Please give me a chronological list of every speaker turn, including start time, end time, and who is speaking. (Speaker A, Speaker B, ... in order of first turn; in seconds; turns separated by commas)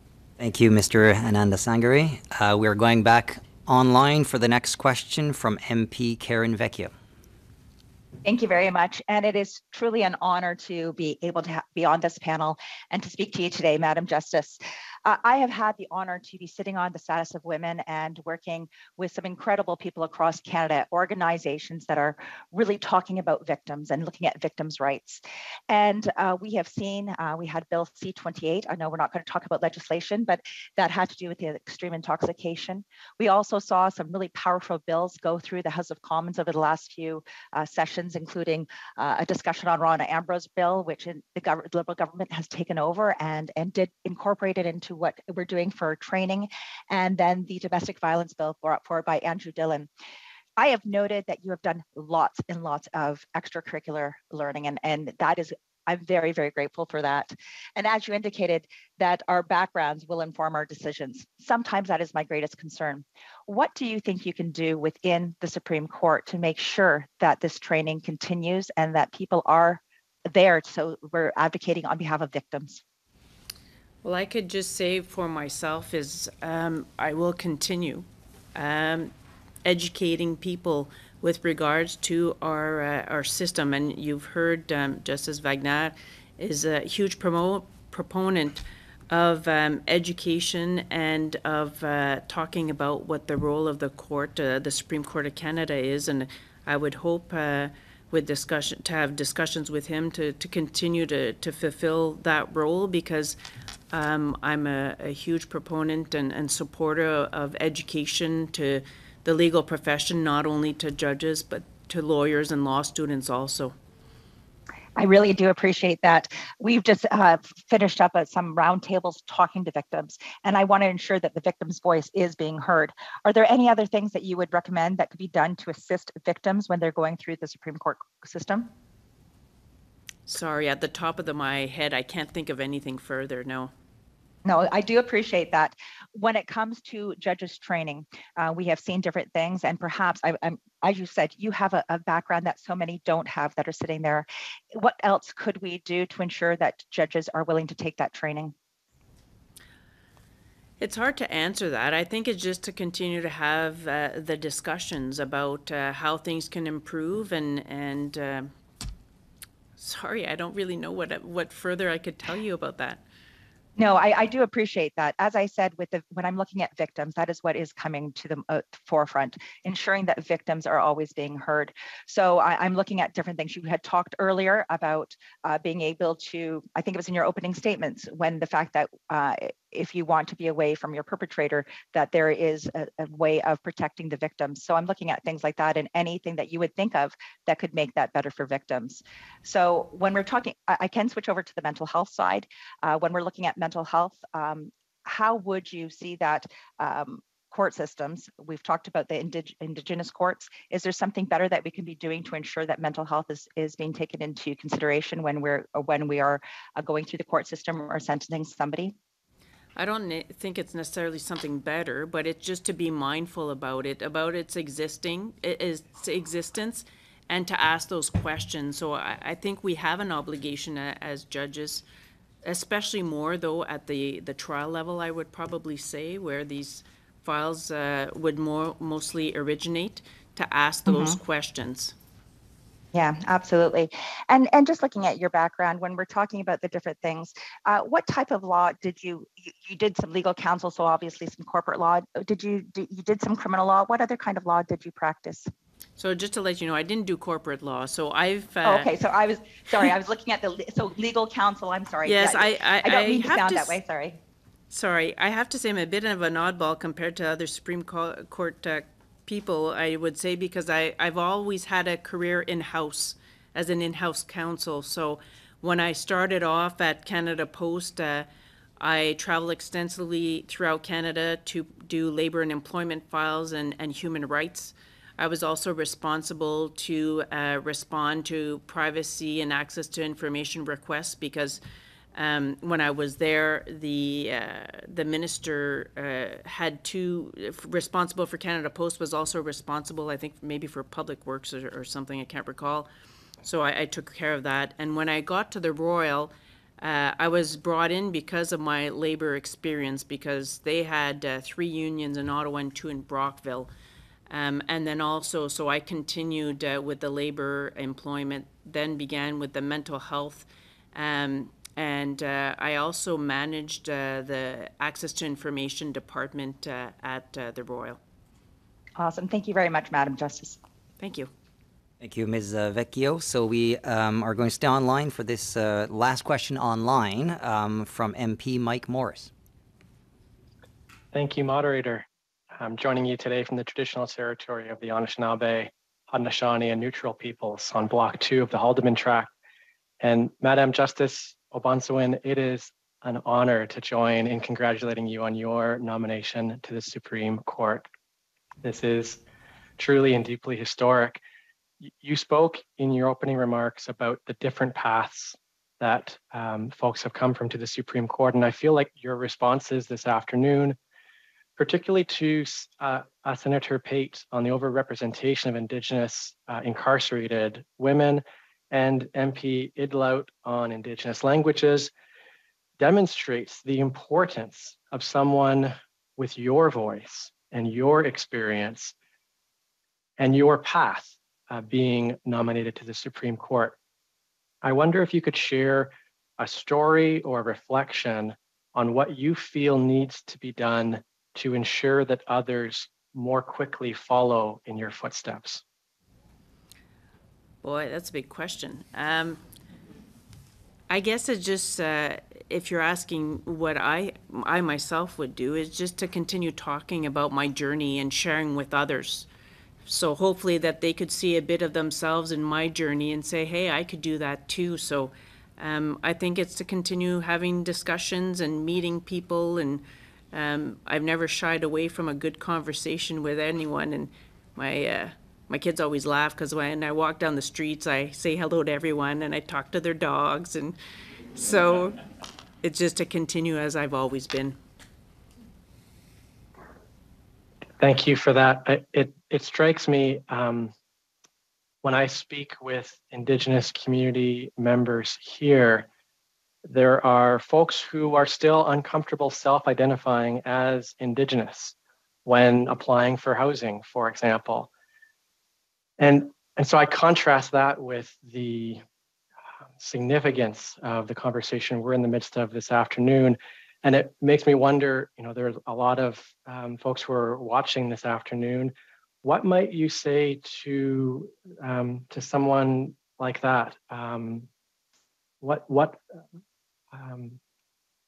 Speaker A: 0.4-6.9, Speaker B: 8.2-49.9, Speaker B: 50.6-72.8, Speaker C: 74.0-79.1, Speaker C: 79.6-103.4, Speaker C: 103.9-113.7, Speaker B: 115.0-128.7, Speaker C: 130.3-133.7, Speaker B: 134.4-148.5, Speaker C: 150.8-158.5, Speaker C: 159.8-163.0, Speaker B: 163.8-208.9, Speaker C: 209.8-221.8, Speaker C: 222.4-231.9, Speaker B: 230.9-231.2, Speaker B: 232.9-245.5, Speaker C: 246.0-248.9, Speaker B: 248.6-254.2, Speaker C: 252.0-253.8, Speaker C: 254.7-268.3, Speaker C: 268.8-281.6, Speaker C: 282.1-292.9, Speaker C: 293.4-303.7, Speaker C: 304.3-318.0, Speaker B: 319.0-320.6, Speaker C: 321.0-321.3, Speaker A: 322.0-329.3, Speaker D: 331.1-339.3, Speaker D: 340.0-347.9, Speaker D: 348.6-349.2, Speaker D: 349.8-351.2, Speaker D: 351.8-360.8, Speaker D: 361.6-371.9, Speaker D: 372.8-378.9, Speaker D: 380.2-383.8, Speaker D: 384.6-395.6, Speaker C: 397.6-399.4, Speaker C: 400.9-409.3, Speaker C: 409.8-430.8, Speaker C: 431.3-432.0, Speaker C: 432.6-434.6, Speaker D: 437.8-440.7, Speaker D: 441.8-445.9, Speaker D: 446.6-454.7, Speaker D: 456.0-458.8, Speaker D: 459.8-474.5, Speaker D: 475.4-476.0, Speaker D: 476.9-477.4